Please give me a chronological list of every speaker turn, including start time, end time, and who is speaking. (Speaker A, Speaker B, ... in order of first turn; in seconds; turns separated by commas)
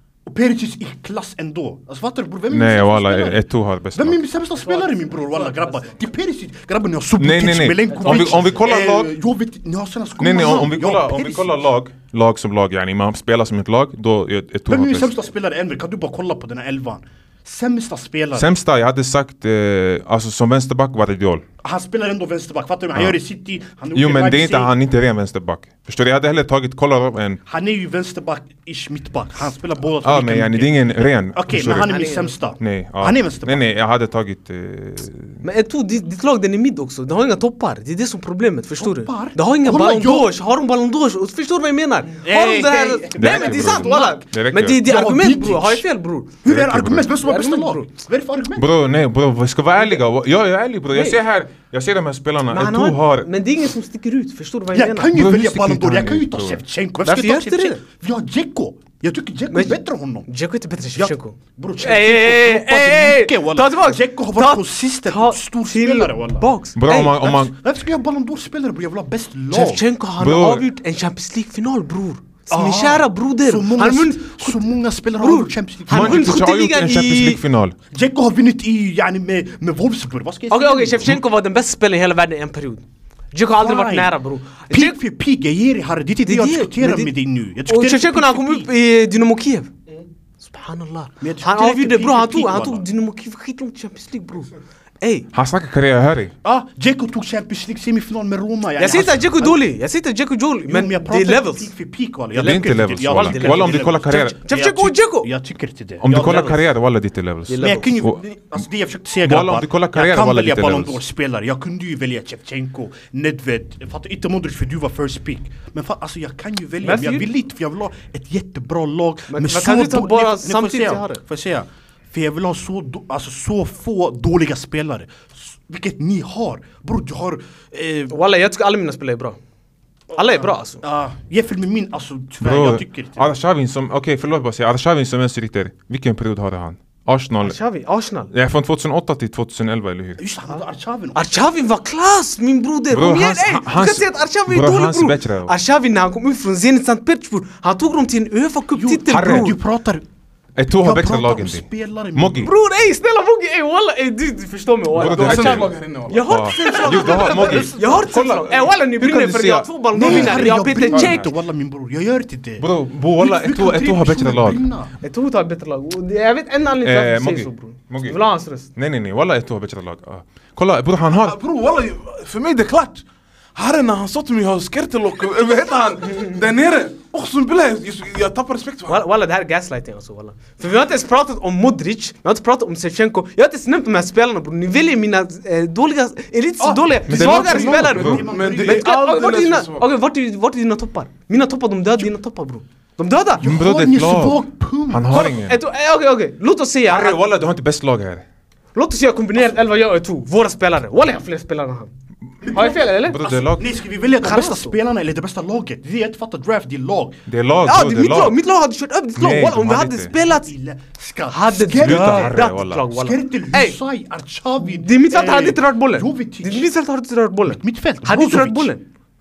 Speaker A: 0.3-11.6, Speaker B: 2.5-4.2, Speaker C: 4.6-6.0, Speaker B: 7.2-9.1, Speaker C: 7.9-8.6, Speaker B: 10.2-15.1, Speaker A: 14.7-18.5, Speaker B: 18.4-21.4, Speaker A: 21.6-24.7, Speaker B: 23.9-27.4, Speaker A: 27.5-33.6, Speaker B: 30.0-31.9, Speaker C: 31.9-32.4, Speaker B: 32.6-35.4, Speaker C: 35.4-46.4, Speaker A: 38.8-40.3, Speaker A: 42.2-45.9, Speaker B: 43.2-44.8, Speaker A: 46.4-48.7, Speaker B: 46.5-47.1, Speaker C: 47.2-47.9, Speaker B: 48.6-53.3, Speaker C: 50.9-51.2, Speaker C: 52.5-55.1, Speaker A: 54.7-60.3, Speaker B: 55.1-56.6, Speaker C: 57.0-57.8, Speaker C: 59.5-67.3, Speaker A: 61.0-69.8, Speaker B: 66.8-67.5, Speaker C: 69.5-74.7, Speaker B: 70.2-70.7, Speaker A: 72.5-76.4, Speaker C: 75.2-77.4, Speaker B: 75.9-77.8, Speaker A: 77.9-81.1, Speaker C: 80.5-85.0, Speaker A: 83.6-84.2, Speaker A: 84.7-88.7, Speaker C: 86.2-87.1, Speaker C: 87.7-89.7, Speaker C: 90.4-95.3, Speaker A: 91.2-92.8, Speaker B: 95.3-96.3, Speaker A: 96.4-99.6, Speaker C: 98.8-101.7, Speaker A: 100.7-106.6, Speaker B: 102.4-104.4, Speaker C: 102.4-105.3, Speaker B: 106.0-108.2, Speaker C: 106.1-106.6, Speaker C: 107.5-108.0, Speaker A: 107.6-128.1, Speaker B: 109.2-111.0, Speaker C: 116.8-117.3, Speaker C: 119.3-121.2, Speaker C: 128.1-129.4, Speaker A: 130.1-133.4, Speaker C: 130.1-130.8, Speaker B: 132.4-137.6, Speaker C: 137.4-138.3, Speaker B: 138.3-140.2, Speaker A: 140.2-141.3, Speaker C: 141.2-149.6, Speaker B: 142.9-145.5, Speaker A: 148.7-150.0, Speaker B: 149.1-149.5, Speaker B: 150.6-152.5, Speaker A: 150.8-152.5, Speaker C: 152.4-161.2, Speaker B: 154.9-155.7, Speaker D: 155.0-157.5, Speaker B: 156.2-161.3, Speaker A: 156.6-157.9, Speaker A: 159.9-164.9, Speaker B: 162.6-164.6, Speaker C: 165.0-168.7, Speaker B: 166.8-168.2, Speaker B: 168.7-171.4, Speaker D: 171.2-179.1, Speaker C: 178.9-193.5, Speaker A: 186.6-188.9, Speaker B: 187.1-188.2, Speaker D: 187.1-189.9, Speaker A: 193.4-195.3, Speaker B: 193.4-195.6, Speaker C: 195.1-197.2, Speaker B: 196.9-198.2, Speaker C: 198.8-201.9, Speaker A: 202.4-207.2, Speaker C: 202.5-203.2, Speaker B: 203.0-203.7, Speaker C: 204.2-204.8, Speaker B: 207.3-208.4, Speaker C: 207.7-210.5, Speaker B: 209.2-210.1, Speaker A: 210.2-216.7, Speaker C: 211.3-213.8, Speaker B: 211.8-212.8, Speaker C: 214.6-218.8, Speaker A: 217.5-218.7